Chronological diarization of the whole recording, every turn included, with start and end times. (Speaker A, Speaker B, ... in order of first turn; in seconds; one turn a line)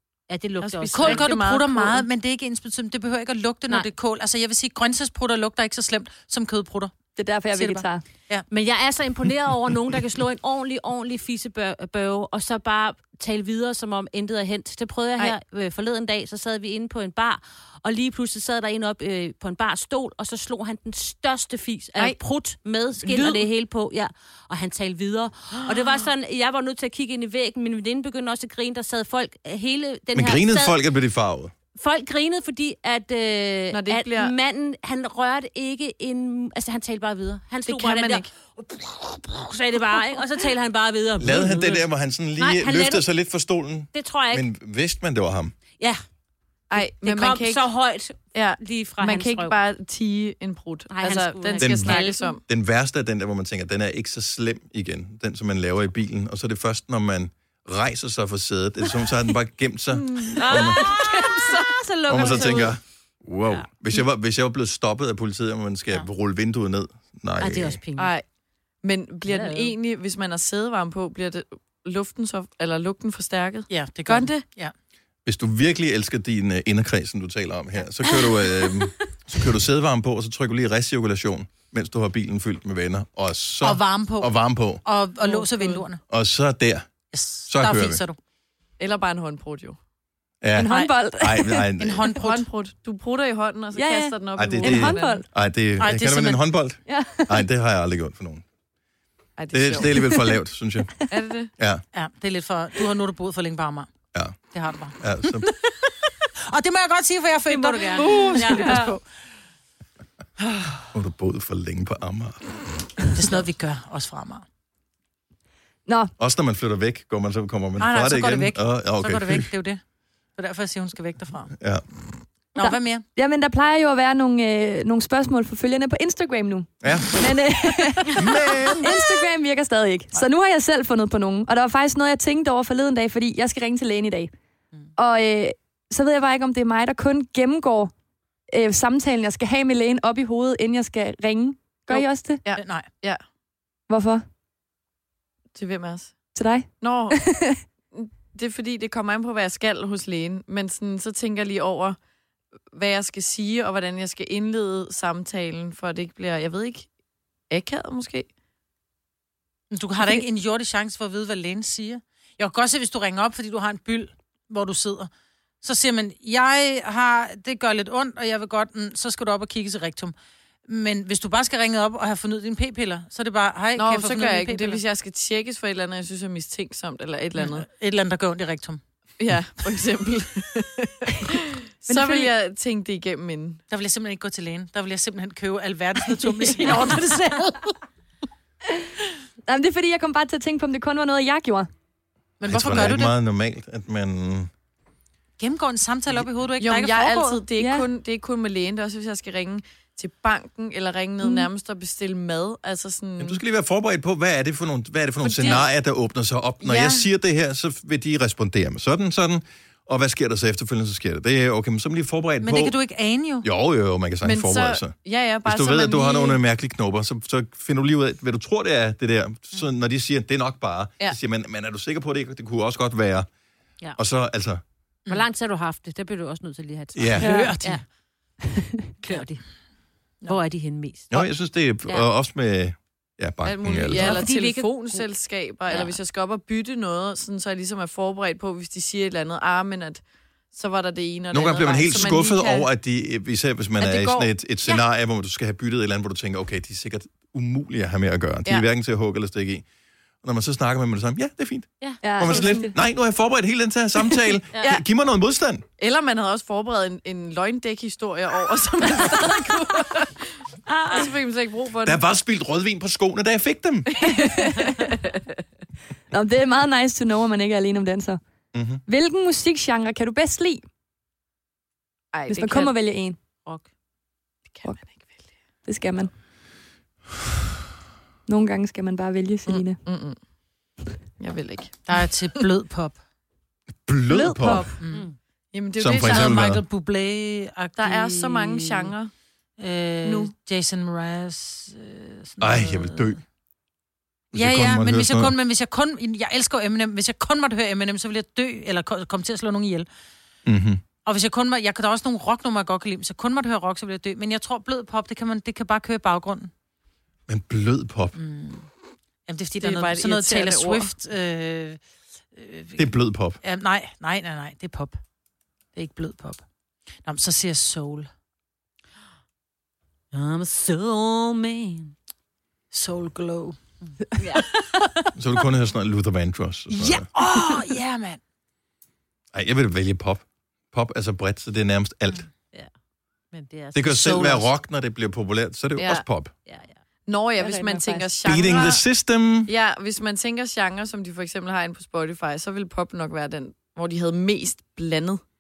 Speaker A: 0.3-1.3
Speaker B: 0.6-2.0
Speaker C: 0.9-6.9
Speaker D: 7.2-8.0
Speaker C: 7.5-8.5
Speaker A: 8.5-30.8
Speaker B: 23.0-23.4
Speaker E: 30.1-31.5
Speaker A: 31.8-41.9
Speaker B: 33.7-34.3
Speaker B: 37.6-38.3
Speaker E: 41.2-45.5
Speaker A: 42.4-43.1
Speaker A: 43.9-44.5
Speaker B: 46.7-47.6
Speaker A: 46.7-49.6
Speaker B: 48.3-52.4
Speaker A: 50.9-52.4
Speaker E: 51.6-60.8
Speaker B: 60.1-62.5
Speaker A: 60.4-62.7
Speaker E: 62.1-67.8
Speaker A: 67.4-68.1
Speaker B: 68.0-68.2
Speaker B: 68.8-74.4
Speaker A: 69.3-69.7
Speaker C: 73.7-74.7
Speaker E: 75.3-84.8
Speaker C: 83.6-86.0
Speaker B: 85.2-85.8
Speaker E: 86.1-86.9
Speaker C: 87.1-88.2
Speaker E: 87.5-88.0
Speaker B: 88.8-89.8
Speaker E: 90.4-92.1
Speaker D: 90.5-91.7
Speaker C: 91.8-92.5
Speaker B: 92.1-95.2
Speaker D: 93.8-95.3
Speaker E: 94.4-98.4
Speaker C: 95.8-96.4
Speaker D: 96.9-97.4
Speaker B: 99.4-100.3
Speaker E: 99.5-101.0
Speaker B: 101.1-101.5
Speaker E: 101.6-101.8
Speaker C: 101.9-103.9
Speaker C: 104.5-105.9
Speaker E: 105.0-105.5
Speaker C: 106.5-109.0
Speaker D: 107.8-108.7
Speaker B: 108.0-108.9
Speaker A: 108.3-108.8
Speaker E: 110.9-112.6
Speaker C: 113.1-114.5
Speaker D: 115.9-116.1
Speaker E: 116.2-119.5
Speaker C: 117.8-119.8
Speaker C: 120.4-121.5
Speaker E: 121.6-121.8
Speaker C: 122.6-123.1
Speaker D: 122.6-134.3
Speaker E: 126.8-127.4
Speaker E: 128.1-128.9
Speaker D: 135.0-137.9
Speaker D: 138.5-142.4
Speaker B: 141.9-143.2
Speaker C: 142.6-142.9
Speaker D: 143.9-144.2
Speaker B: 145.6-146.2
Speaker D: 146.3-147.6
Speaker B: 146.8-147.2
Speaker B: 147.9-152.0
Speaker B: 152.7-156.9
Speaker B: 157.5-158.3
Speaker C: 159.7-165.1
Speaker C: 165.6-170.1
Speaker C: 170.7-174.8
Speaker B: 173.8-177.7
Speaker C: 177.4-178.8
Speaker B: 179.2-183.6
Speaker D: 181.9-182.3
Speaker C: 183.7-187.8
Speaker D: 189.5-191.7
Speaker C: 192.4-193.1
Speaker E: 192.4-194.5
Speaker C: 195.4-197.4
Speaker B: 196.6-203.4
Speaker D: 197.6-197.9
Speaker D: 201.2-201.5
Speaker E: 203.2-212.8
Speaker B: 205.2-205.6
Speaker B: 206.6-207.1
Speaker C: 212.4-213.5
Speaker E: 213.4-223.3
Speaker B: 214.2-216.4
Speaker E: 224.0-224.6
Speaker A: 225.1-227.8
Speaker E: 226.9-227.3
Speaker C: 227.2-227.8
Speaker A: 229.0-229.4
Speaker A: 230.3-231.2
Speaker E: 231.1-234.2
Speaker B: 233.4-240.0
Speaker A: 233.9-235.1
Speaker B: 240.5-242.7
Speaker E: 241.3-249.6
Speaker B: 243.8-244.3
Speaker E: 250.2-255.6
Speaker D: 252.0-252.7
Speaker B: 255.8-260.4
Speaker A: 260.7-261.0
Speaker B: 260.9-262.0
Speaker E: 261.8-264.1
Speaker B: 264.0-265.1
Speaker D: 264.1-264.9
Speaker D: 266.1-268.2
Speaker E: 268.5-268.8
Speaker D: 268.9-270.6
Speaker B: 272.1-272.8
Speaker D: 272.3-273.2
Speaker D: 275.6-276.1
Speaker D: 278.3-279.8
Speaker B: 279.5-280.2
Speaker B: 281.2-281.9
Speaker C: 281.9-283.0
Speaker E: 283.9-284.7
Speaker D: 284.1-284.8
Speaker C: 284.8-285.1
Speaker A: 284.9-285.1
Speaker B: 285.5-286.4
Speaker E: 285.8-286.6
Speaker C: 286.0-288.9
Speaker B: 287.8-289.1
Speaker C: 289.6-293.2
Speaker B: 290.0-290.3
Speaker E: 292.4-293.2
Speaker E: 294.3-295.4
Speaker C: 294.4-299.9
Speaker E: 300.5-300.8
Speaker C: 301.0-306.5
Speaker E: 307.3-308.1
Speaker C: 308.1-308.7
Speaker C: 309.3-311.8
Speaker B: 309.6-310.9
Speaker C: 312.3-312.9
Speaker E: 312.8-313.4
Speaker C: 313.4-315.0
Speaker C: 315.8-316.4
Speaker C: 317.0-318.1
Speaker A: 320.1-321.9
Speaker C: 322.7-323.6
Speaker A: 324.2-324.5
Speaker C: 324.2-325.1
Speaker E: 325.1-327.1
Speaker C: 326.7-328.2
Speaker E: 329.3-332.3
Speaker A: 333.3-334.5
Speaker E: 333.7-336.3
Speaker B: 335.8-336.1
Speaker A: 336.5-336.8
Speaker B: 337.1-338.8
Speaker A: 337.4-338.0
Speaker E: 338.2-339.5
Speaker B: 339.5-345.2